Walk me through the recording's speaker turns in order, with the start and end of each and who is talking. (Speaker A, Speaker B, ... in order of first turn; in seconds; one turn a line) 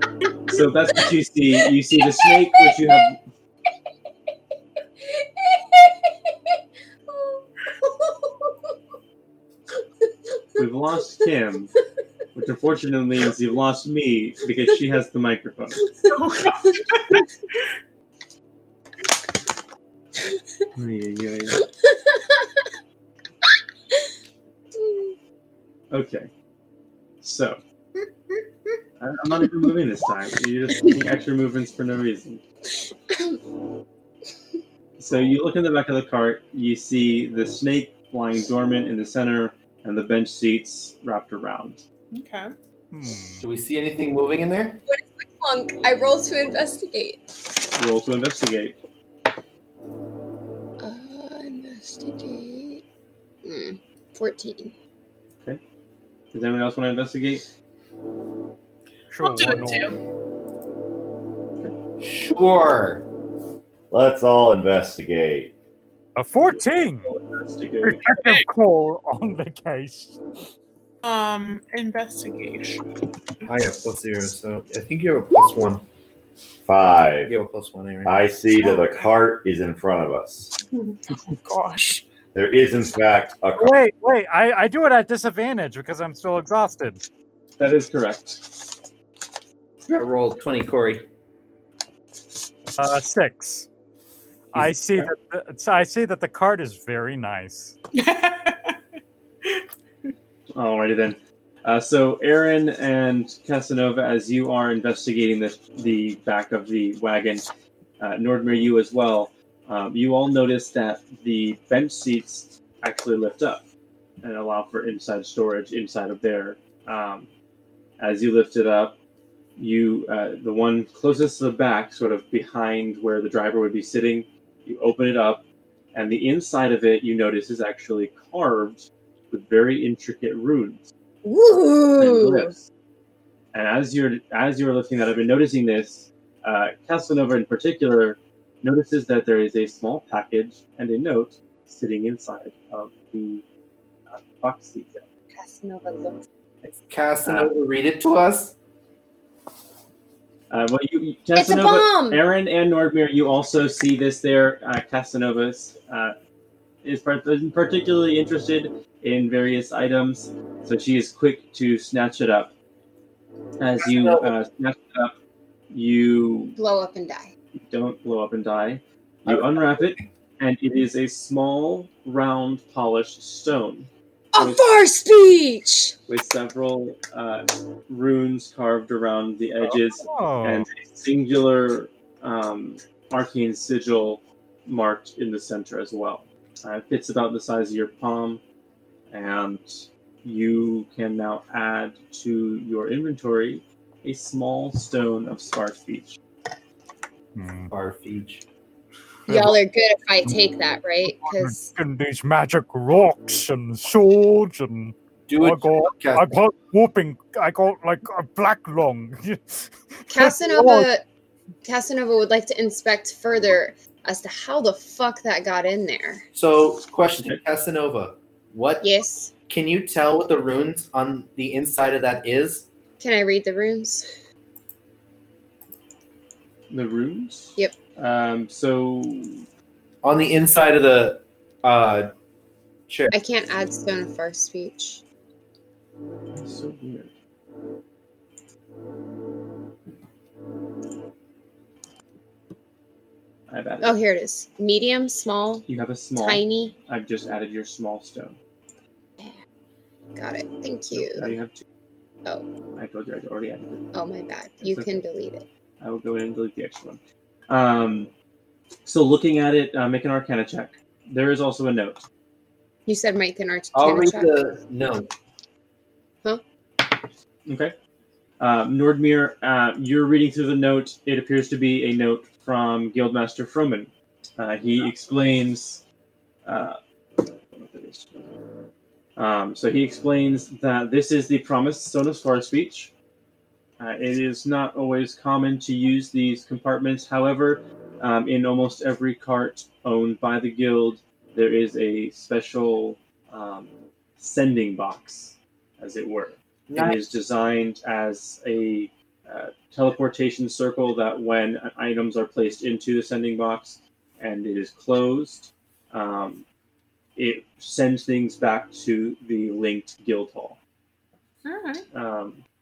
Speaker A: 0.5-3.2
Speaker B: 1.9-3.1
Speaker B: 5.1-6.3
Speaker B: 7.1-8.5
Speaker A: 10.6-11.7
Speaker A: 12.3-15.9
Speaker C: 16.0-17.2
Speaker A: 20.8-21.6
Speaker B: 21.8-22.6
Speaker B: 24.8-25.2
Speaker A: 25.9-26.3
Speaker A: 27.2-27.6
Speaker A: 29.0-32.4
Speaker B: 33.1-33.4
Speaker A: 35.0-41.8
Speaker C: 42.1-42.5
Speaker D: 42.9-43.4
Speaker E: 43.4-44.8
Speaker B: 44.9-47.2
Speaker A: 47.8-48.8
Speaker B: 50.8-52.8
Speaker B: 53.4-54.8
Speaker A: 56.3-57.5
Speaker D: 59.1-60.0
Speaker C: 59.2-60.0
Speaker E: 62.0-63.0
Speaker F: 63.9-65.5
Speaker D: 66.2-67.2
Speaker A: 66.5-68.1
Speaker D: 67.8-70.2
Speaker C: 68.2-68.4
Speaker C: 71.0-72.8
Speaker E: 73.5-75.8
Speaker F: 76.7-77.3
Speaker E: 77.3-78.3
Speaker F: 78.0-80.5
Speaker C: 78.6-78.9
Speaker C: 80.8-82.0
Speaker F: 82.3-83.8
Speaker D: 83.6-87.0
Speaker A: 87.6-88.8
Speaker E: 89.9-91.1
Speaker D: 92.8-93.7
Speaker D: 94.5-97.8
Speaker E: 94.6-95.1
Speaker C: 97.9-98.8
Speaker A: 100.5-113.7
Speaker A: 114.2-117.3
Speaker A: 118.0-119.0
Speaker A: 119.6-130.9
Speaker B: 131.2-132.5
Speaker A: 132.0-132.7
Speaker A: 133.5-143.4
Speaker A: 144.1-145.1
Speaker B: 145.3-146.2
Speaker E: 146.6-148.6
Speaker A: 147.2-147.5
Speaker A: 150.5-156.2
Speaker B: 151.3-152.2
Speaker A: 156.8-162.5
Speaker A: 163.6-165.2
Speaker E: 163.8-164.3
Speaker A: 165.7-166.6
Speaker B: 166.6-167.3
Speaker A: 167.6-174.6
Speaker E: 169.3-170.1
Speaker B: 174.3-175.9
Speaker A: 176.1-188.4
Speaker D: 179.6-180.7
Speaker A: 189.1-196.2
Speaker D: 197.4-197.7
Speaker E: 197.7-198.4
Speaker D: 199.3-199.6
Speaker B: 199.3-201.7
Speaker D: 201.2-210.9
Speaker E: 205.3-206.4
Speaker B: 210.1-211.0
Speaker B: 211.7-216.3
Speaker E: 216.3-218.9
Speaker B: 218.8-219.3
Speaker E: 219.5-222.7
Speaker B: 223.0-224.1
Speaker A: 226.7-229.4
Speaker E: 230.0-232.1
Speaker E: 232.9-233.1
Speaker B: 233.1-235.0
Speaker A: 236.3-237.1
Speaker A: 243.5-244.0
Speaker B: 243.8-245.7
Speaker A: 245.7-248.4
Speaker B: 246.2-246.8
Speaker B: 250.2-251.3
Speaker A: 250.9-251.6
Speaker A: 252.8-253.9
Speaker B: 253.9-255.5
Speaker A: 254.6-255.0
Speaker A: 255.8-258.1
Speaker A: 258.9-262.0
Speaker B: 262.9-264.4
Speaker E: 263.7-265.1
Speaker A: 267.5-267.8
Speaker A: 268.4-275.8
Speaker A: 276.5-278.3
Speaker A: 279.2-282.9
Speaker A: 283.8-306.4
Speaker E: 296.7-297.0
Speaker A: 307.2-310.6
Speaker C: 311.4-311.9
Speaker A: 311.9-312.4